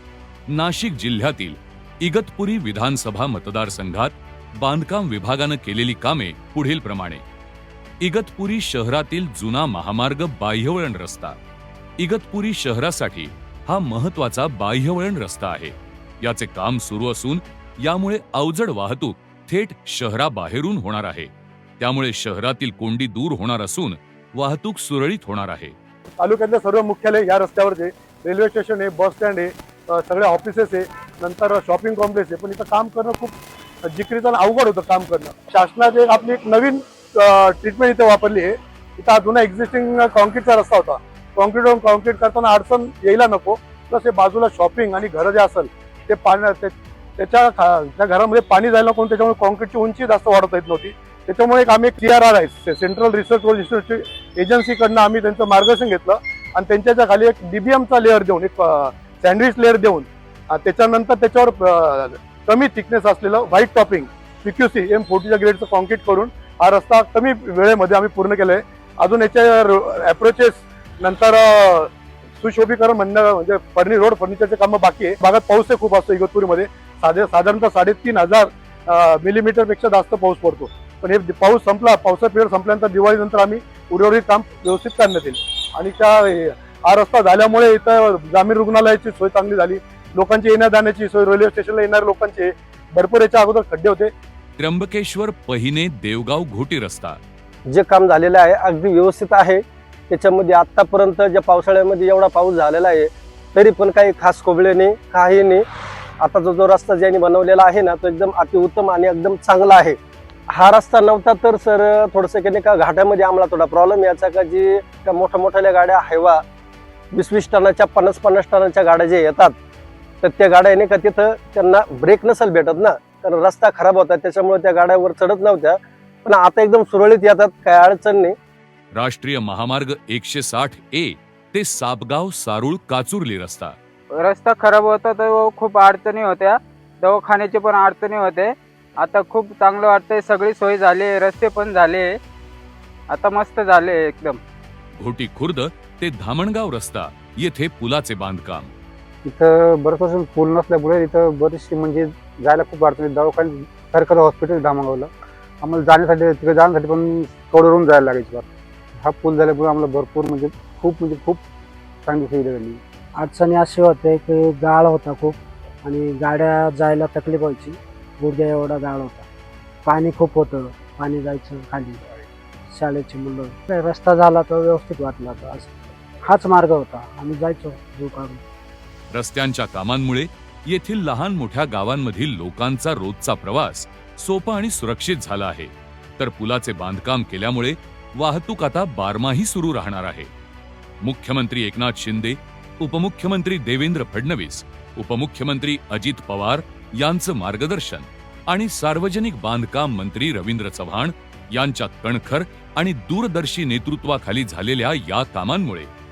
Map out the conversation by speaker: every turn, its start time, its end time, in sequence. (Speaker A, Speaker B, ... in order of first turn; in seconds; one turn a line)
Speaker A: 0.5-7.2
Speaker A: 8.0-11.3
Speaker A: 12.0-25.7
Speaker B: 26.2-33.3
Speaker B: 33.9-94.1
Speaker A: 94.6-97.2
Speaker C: 97.7-105.6
Speaker C: 106.2-110.0
Speaker C: 110.5-116.4
Speaker C: 117.1-119.5
Speaker C: 120.2-128.3
Speaker A: 128.9-133.7
Speaker D: 134.2-142.2
Speaker D: 143.1-144.4
Speaker A: 145.0-148.7
Speaker E: 149.2-158.5
Speaker E: 159.0-161.4
Speaker E: 162.0-162.8
Speaker F: 163.2-169.3
Speaker F: 169.8-172.0
Speaker F: 172.7-178.4
Speaker A: 179.1-190.3
Speaker A: 191.0-205.9